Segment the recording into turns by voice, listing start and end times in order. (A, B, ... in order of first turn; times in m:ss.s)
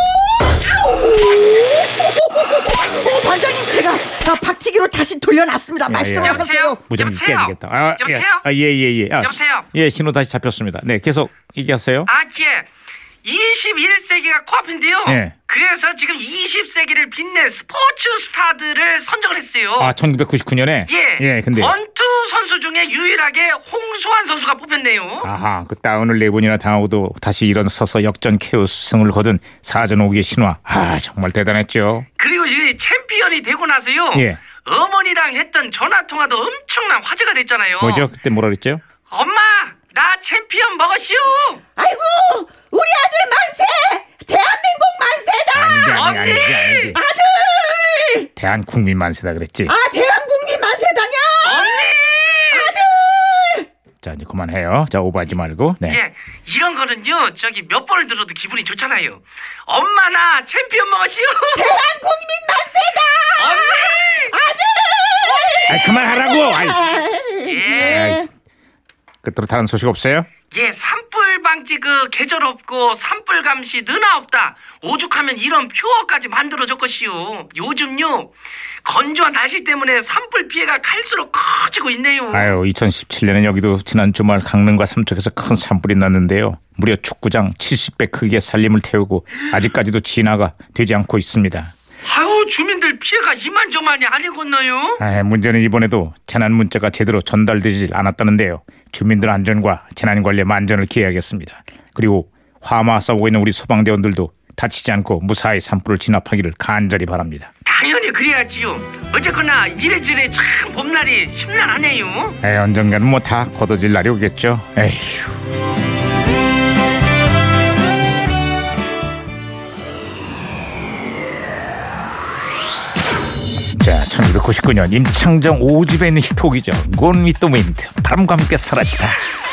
0:00.5-0:06.8 A
0:05.9-0:12.1 B
0:06.2-0:08.5 C
0:09.2-0:09.7 C
0:12.1-0:12.7 C
0:13.2-0:20.0 C
0:15.1-0:15.4 B
0:19.8-0:21.8 B
0:20.9-0:25.3 C
0:25.2-0:32.1 B
0:32.2-0:38.1 C
0:34.1-0:34.4 B
0:37.8-0:38.8 B
0:39.1-0:41.6 C
0:41.8-0:46.2 A
0:45.5-0:47.0 B
0:45.9-0:47.0 C
0:46.9-0:48.3 A
0:48.4-0:49.8 B
0:49.7-0:51.8 A
0:51.4-0:52.8 C
0:52.5-0:53.7 A
0:54.0-0:56.0 B
0:55.8-1:01.7 C
1:01.5-1:08.3 A
1:03.4-1:04.4 C
1:05.2-1:06.0 C
1:05.7-1:06.8 B
1:07.4-1:08.1 C
1:07.8-1:08.3 B
1:09.2-1:10.3 B
1:10.5-1:18.3 C
1:18.8-1:22.6 C
1:22.3-1:31.7 B
1:32.0-1:35.0 C
1:35.0-1:47.5 B
1:47.6-1:52.4 C
1:52.4-1:55.4 B
2:03.8-2:09.2 B